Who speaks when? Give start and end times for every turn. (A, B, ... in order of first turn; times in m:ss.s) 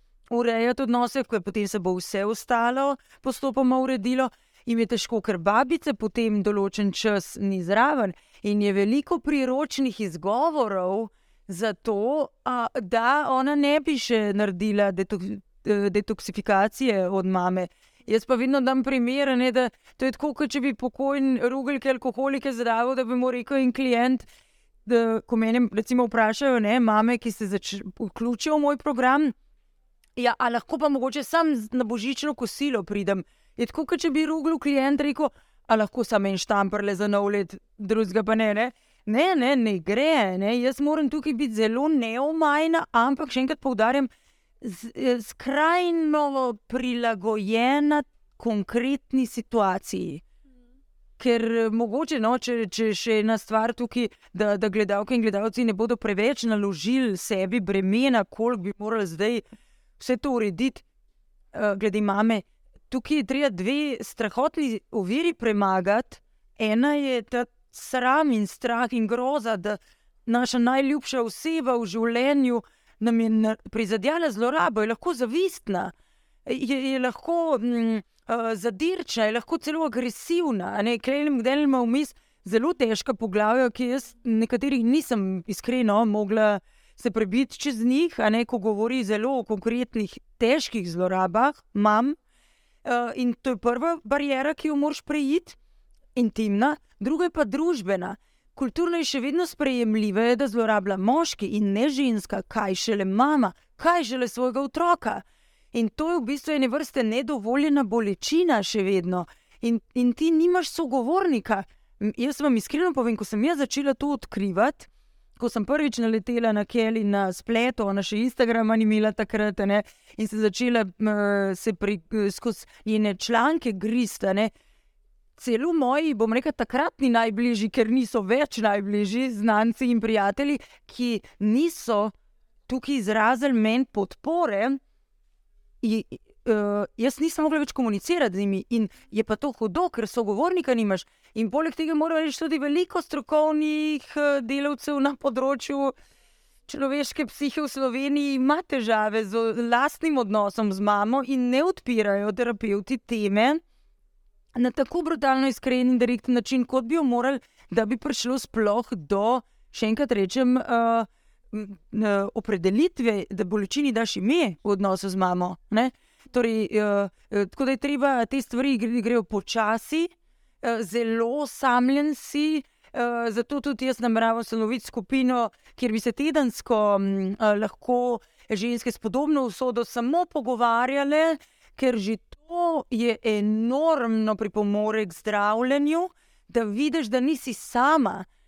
0:00.3-0:24.3 A
0:24.9-0:29.3 A
0:30.2-0:44.1 A
0:44.6-0:50.2 A
0:51.2-0:59.4 A
1:00.0-1:00.8 A
1:01.5-1:15.9 A
1:16.5-1:32.2 A
1:32.8-1:35.6 A
1:36.2-2:04.5 A
2:05.4-2:12.1 A
2:12.7-2:14.8 A
2:15.8-2:25.9 A
2:26.7-2:33.6 A
2:34.6-2:50.1 A
2:50.6-3:08.2 A